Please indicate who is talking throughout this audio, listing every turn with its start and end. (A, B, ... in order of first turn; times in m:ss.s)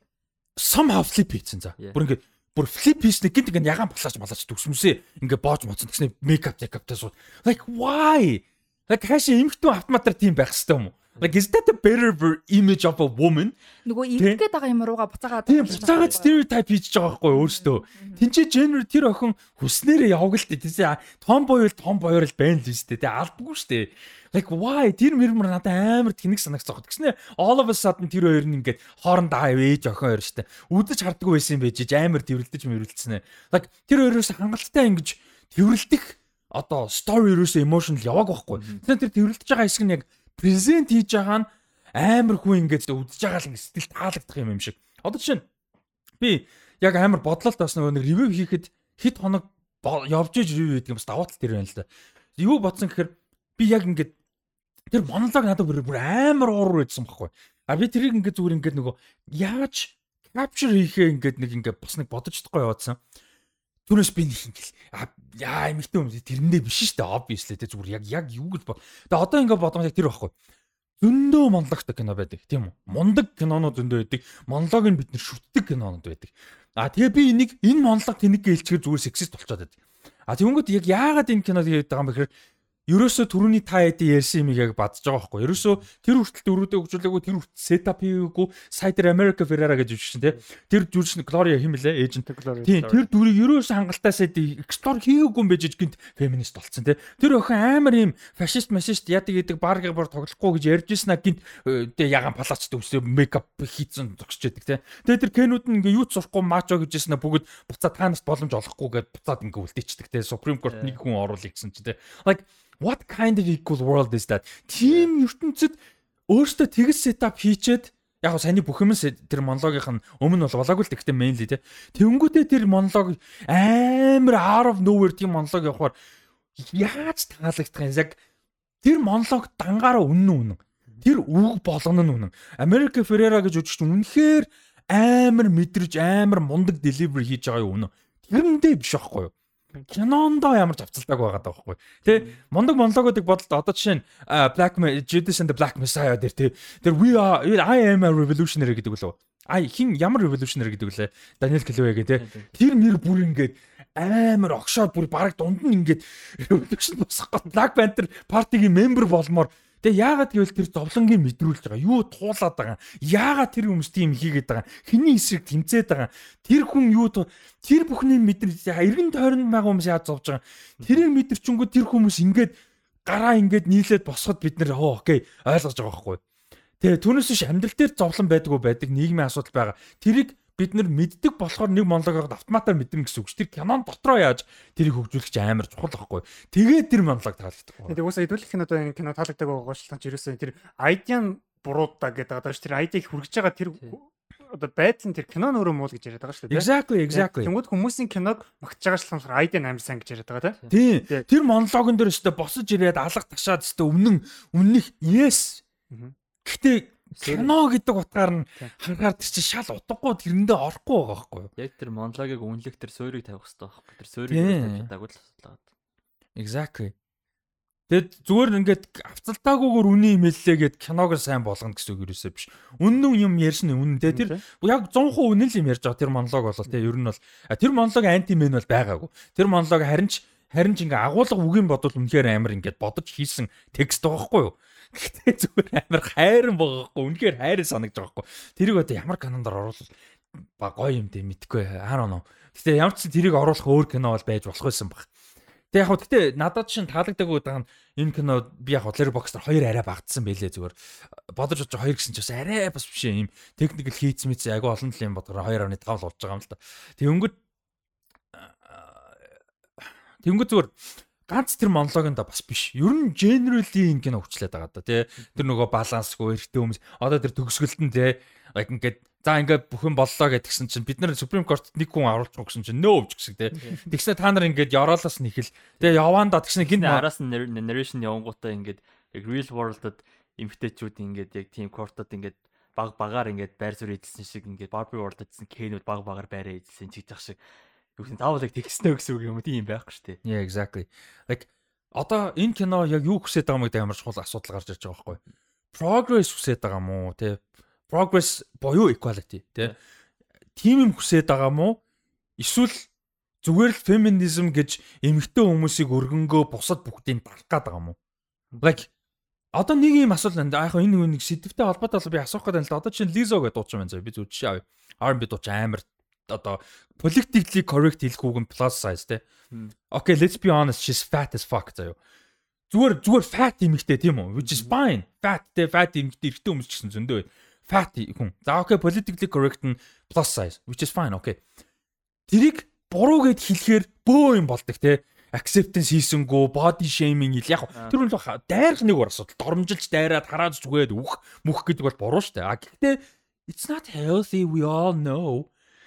0:00.6-0:13.6 A
0:13.8-0:16.4 B
0:15.4-0:45.4 A
0:15.7-0:16.2 C
0:17.3-0:18.2 B
0:38.5-0:38.8 C
0:46.2-0:54.1 A
0:54.9-1:03.0 A
1:03.9-1:10.3 A
1:11.0-1:19.7 A
1:20.3-1:22.3 A
1:22.9-2:05.9 A
1:32.2-1:33.0 D
1:50.7-1:51.0 C
1:54.8-1:55.1 C
2:06.6-2:08.2 A
2:08.8-2:19.3 A
2:19.9-2:56.2 A
2:22.0-2:22.4 C
2:32.2-2:32.5 C
2:50.8-2:51.0 C
2:56.8-3:08.0 A
3:07.9-3:21.3 D
3:16.5-3:17.5 A
3:20.7-3:25.6 A
3:25.9-3:26.1 D
3:26.4-3:31.5 A
3:27.2-3:27.5 C
3:31.6-3:35.6 C
3:34.3-3:34.9 A
3:36.4-3:36.9 A
3:37.9-3:59.9 A
3:44.1-3:44.4 D
4:00.6-4:05.1 A
4:05.7-4:10.7 A
4:11.3-4:17.3 A
4:18.3-4:19.3 A
4:20.2-4:37.0 A
4:36.6-4:47.4 C
4:48.0-4:50.2 C
4:50.2-4:55.2 A
4:55.7-4:59.7 A
5:00.6-5:01.8 A
5:02.4-5:02.9 A
5:03.4-5:08.0 A
5:08.6-5:08.9 A
5:09.5-5:19.2 A
5:19.9-5:22.0 A
5:22.7-5:31.4 A
5:32.3-5:45.5 A